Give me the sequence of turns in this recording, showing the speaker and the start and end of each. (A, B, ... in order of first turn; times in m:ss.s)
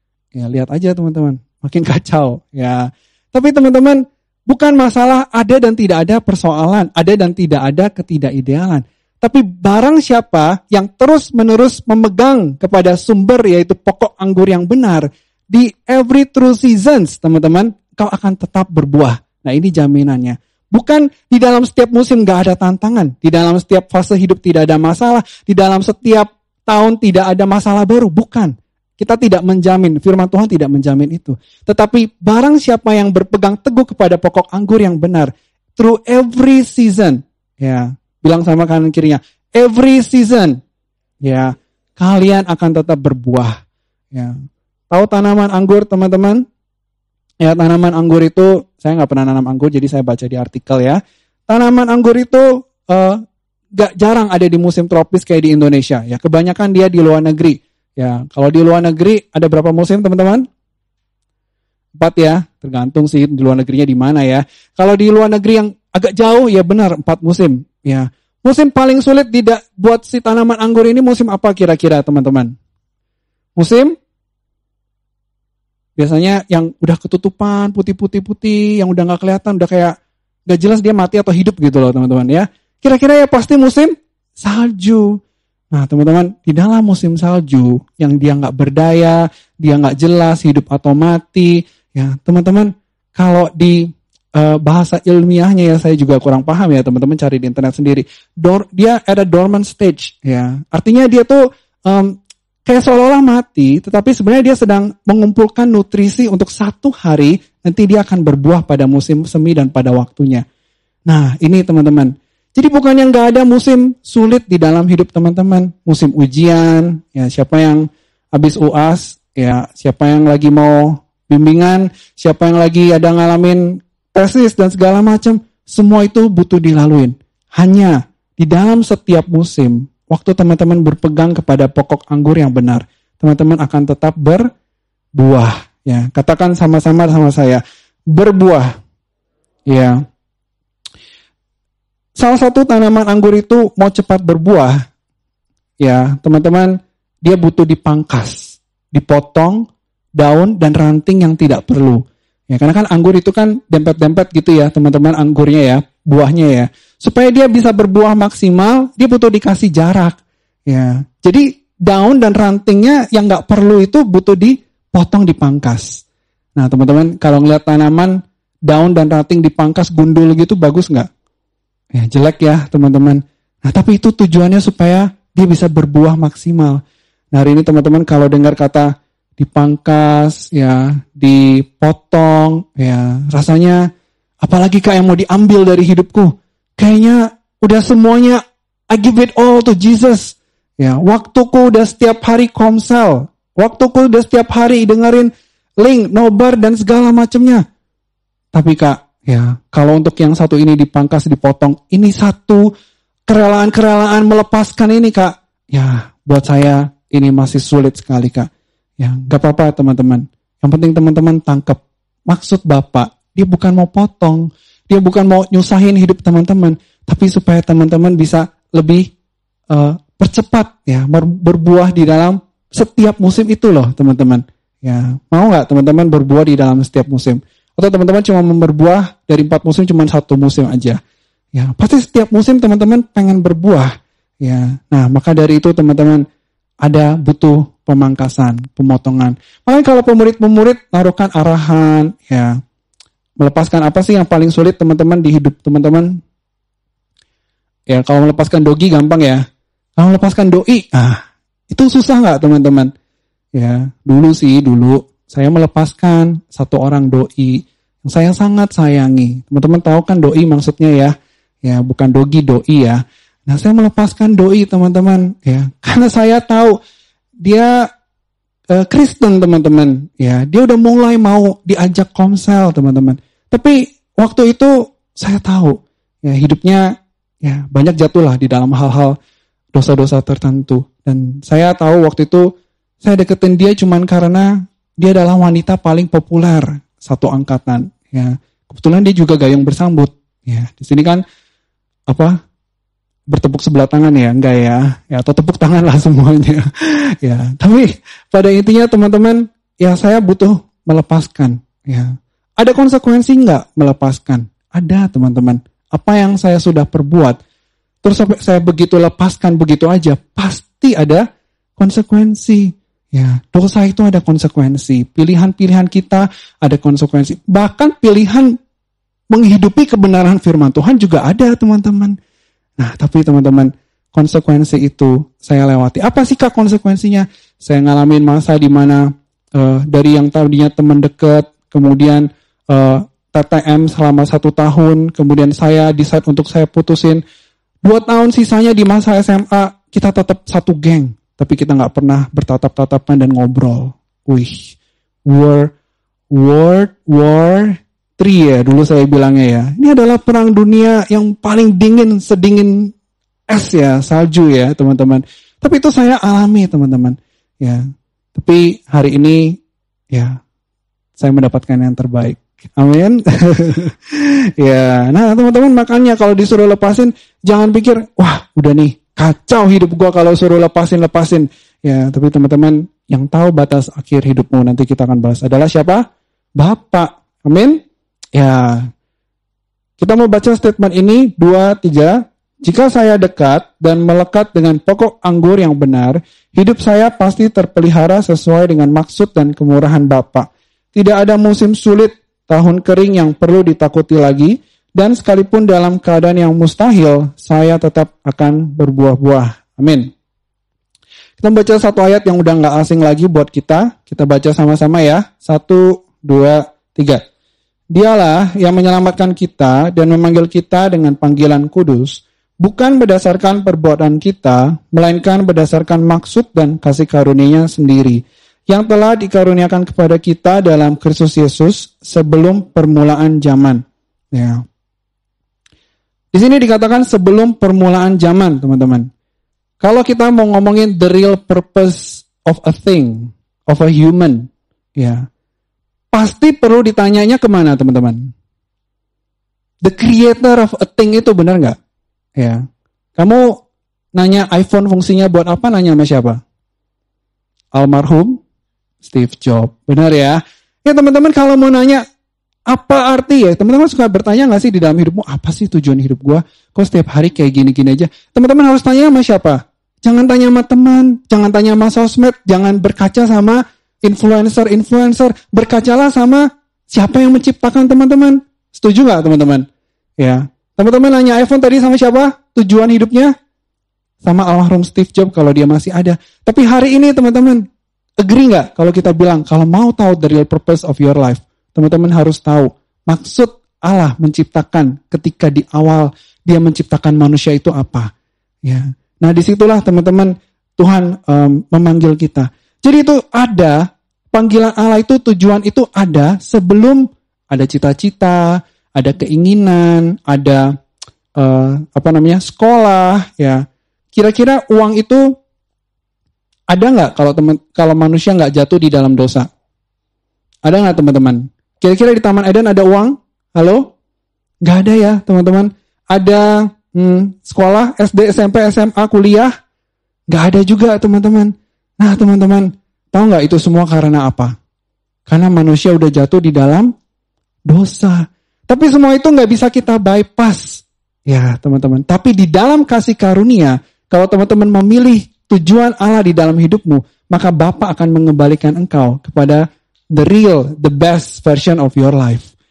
0:00.4-0:40.6 A
0:41.2-0:43.6 A
0:44.9-0:46.4 A
0:47.4-0:53.2 A
0:53.8-1:00.4 A
1:02.0-1:12.5 A
1:13.6-1:13.9 A
1:16.0-1:19.9 A
1:20.5-1:25.2 A
1:25.7-1:50.4 A
1:51.1-2:03.6 A
2:04.1-2:14.4 A
2:15.2-2:17.6 A
2:18.1-2:18.7 A
2:19.7-2:20.0 A
2:22.2-2:24.8 A
2:25.8-2:29.6 A
2:30.2-2:40.2 A
2:40.7-2:46.0 A
2:46.6-2:48.2 A
2:48.7-2:51.1 A
2:51.9-2:56.8 A
2:57.3-3:03.8 A
3:04.4-3:08.4 A
3:08.9-3:15.3 A
3:15.8-3:17.6 A
3:18.5-3:22.7 A
3:23.3-3:28.5 A
3:29.0-3:39.0 A
3:39.7-3:51.0 A
3:51.6-3:53.9 A
3:54.4-3:56.2 A
3:56.8-4:02.6 A
4:03.4-4:06.2 A
4:07.9-4:09.4 A
4:10.0-4:11.2 A
4:11.7-4:12.9 A
4:13.6-4:26.8 A
4:27.4-4:27.9 A
4:28.7-4:36.8 A
4:37.4-4:39.2 A
4:39.7-4:42.4 A
4:43.0-4:51.2 A
4:52.1-4:52.4 A
4:53.3-5:07.4 A
5:08.0-5:11.2 A
5:11.8-5:18.5 A
5:19.3-5:22.2 A
5:22.8-5:37.2 A
5:37.8-5:44.8 A
5:45.3-5:45.7 A
5:46.3-5:52.9 A
5:53.5-5:57.8 A
5:58.4-5:59.6 A
6:00.1-6:00.4 A
6:01.2-6:16.0 A
6:16.6-6:17.8 A
6:18.4-6:18.9 A
6:20.0-6:40.1 A
6:41.4-6:47.2 A
6:47.9-7:04.6 A
7:06.3-7:09.1 A
7:09.8-7:15.2 A
7:16.1-7:18.2 A
7:19.8-7:21.8 A
7:23.2-7:23.6 A
7:24.2-7:26.4 A
7:27.8-7:28.4 A
7:29.0-7:32.0 A
7:32.7-7:49.6 A
7:50.2-7:53.3 A
7:54.2-7:57.6 A
7:58.2-8:08.1 A
8:08.7-8:20.7 A
8:21.4-8:25.2 A
8:26.7-8:29.5 A
8:30.7-8:33.9 A
8:34.6-8:39.5 A
8:40.3-8:44.5 A
8:45.3-8:46.9 A
8:47.7-8:59.6 A
9:00.2-9:02.5 A